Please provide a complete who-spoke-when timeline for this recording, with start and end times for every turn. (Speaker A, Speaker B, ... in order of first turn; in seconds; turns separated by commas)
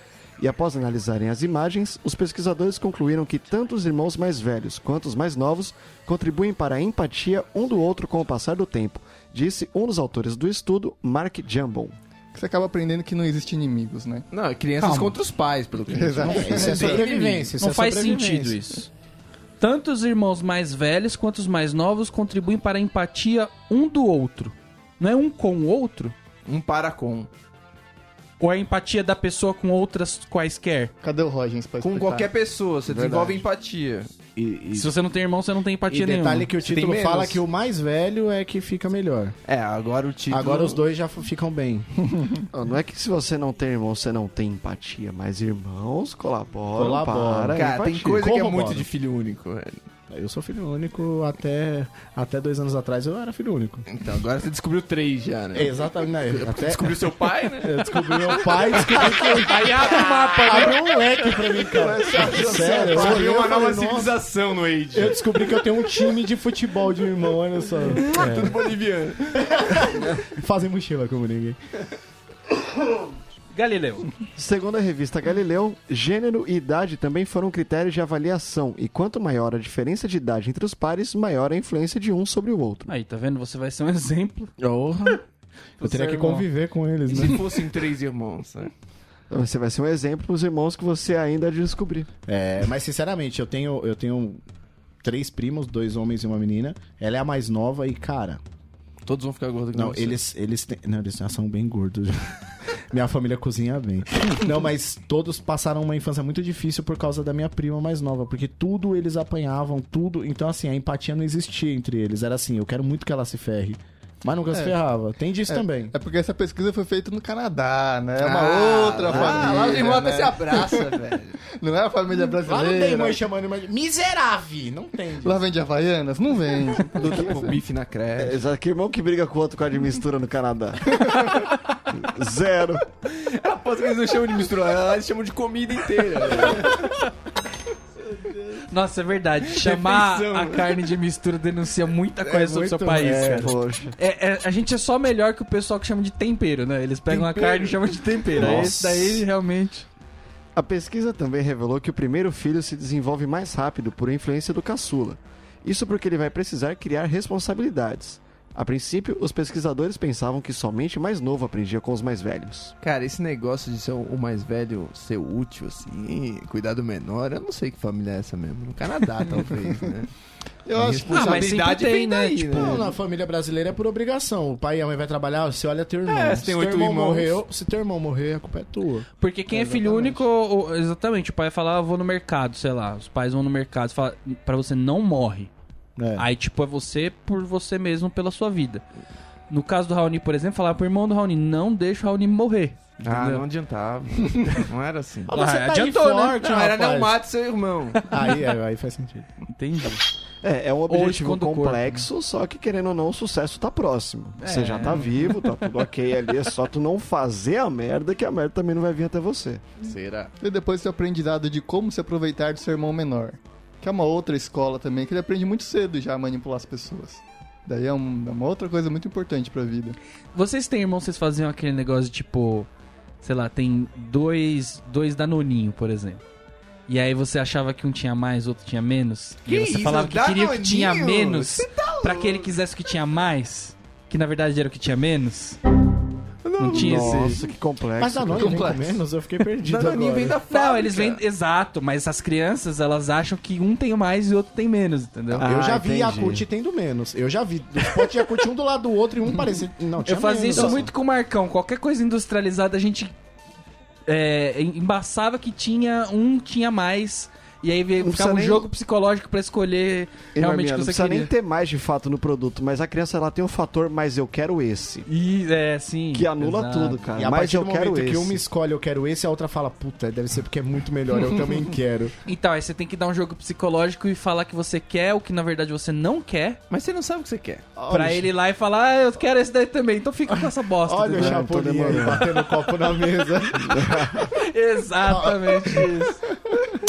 Speaker A: 0.4-11.9, Speaker B: 12.3-14.2, Speaker C: 14.3-17.5, Speaker D: 14.8-15.1, Speaker B: 15.9-17.1, Speaker E: 16.2-18.6, Speaker D: 17.6-18.9, Speaker D: 19.6-26.1, Speaker C: 26.4-27.3, Speaker D: 28.4-30.9, Speaker B: 31.0-32.3, Speaker C: 31.8-34.1, Speaker E: 34.4-34.9, Speaker D: 34.7-36.5, Speaker E: 35.9-39.3, Speaker C: 36.6-37.4, Speaker C: 39.5-40.9, Speaker E: 40.3-41.9, Speaker B: 42.1-42.4, Speaker A: 42.5-48.2, Speaker E: 46.7-48.9, Speaker C: 47.5-49.8, Speaker E: 50.1-53.9, Speaker C: 53.9-55.7, Speaker E: 55.5-57.0, Speaker C: 56.3-59.3, Speaker E: 57.6-64.2, Speaker D: 59.5-61.0, Speaker C: 61.7-65.6, Speaker A: 62.1-63.3, Speaker E: 64.9-68.4, Speaker C: 67.9-69.9, Speaker D: 68.1-68.5, Speaker E: 69.4-71.6, Speaker D: 73.5-74.1, Speaker A: 74.3-82.9, Speaker D: 82.9-84.5, Speaker E: 84.6-85.2, Speaker D: 85.8-86.5, Speaker E: 85.8-87.4, Speaker C: 87.1-88.7, Speaker A: 89.3-92.1, Speaker E: 92.2-94.4, Speaker E: 95.0-98.4, Speaker C: 99.0-100.2, Speaker E: 99.7-102.3, Speaker E: 102.9-115.9, Speaker B: 115.5-120.9, Speaker C: 118.2-121.4, Speaker A: 119.0-119.8, Speaker B: 121.6-123.2, Speaker E: 122.5-125.4, Speaker B: 125.2-127.2, Speaker C: 126.9-128.4, Speaker A: 128.2-132.8, Speaker C: 133.0-136.9, Speaker D: 138.7-149.8, Speaker C: 139.5-140.8, Speaker E: 142.2-143.5, Speaker A: 143.1-143.9, Speaker C: 147.1-148.6, Speaker A: 148.3-149.2, Speaker A: 150.5-162.7, Speaker C: 162.8-170.1, Speaker B: 170.7-171.5, Speaker C: 170.7-172.9, Speaker E: 170.8-171.3, Speaker D: 171.1-172.7, Speaker E: 172.5-180.2, Speaker C: 176.1-177.4, Speaker D: 179.2-185.5, Speaker E: 185.9-186.3, Speaker D: 186.1-188.8, Speaker D: 189.5-193.4, Speaker C: 193.0-195.3, Speaker E: 195.3-197.2, Speaker D: 195.3-196.5, Speaker C: 196.4-198.0, Speaker D: 198.0-198.4, Speaker E: 198.1-199.3, Speaker D: 199.5-200.1, Speaker A: 200.4-209.6, Speaker D: 200.9-202.1, Speaker D: 204.4-205.4, Speaker C: 209.8-210.3, Speaker B: 210.4-220.0, Speaker D: 220.3-222.7, Speaker D: 223.2-226.2, Speaker D: 226.9-235.6, Speaker C: 229.4-232.5, Speaker C: 236.4-237.4, Speaker D: 236.6-237.4, Speaker A: 236.7-238.7, Speaker E: 238.0-240.3, Speaker C: 238.4-239.0, Speaker C: 239.6-241.2, Speaker D: 240.5-245.4, Speaker A: 245.3-246.4, Speaker E: 245.4-250.9, Speaker D: 250.1-253.1, Speaker D: 254.1-261.3, Speaker A: 258.0-258.7, Speaker A: 260.3-265.1, Speaker D: 265.1-267.1, Speaker A: 266.1-268.4, Speaker E: 267.1-272.1, Speaker D: 272.2-276.6, Speaker C: 276.7-277.6, Speaker E: 277.8-278.3, Speaker D: 277.9-282.0, Speaker E: 280.9-284.1, Speaker A: 281.1-282.4, Speaker A: 283.6-284.3, Speaker D: 284.3-286.2, Speaker E: 285.1-285.9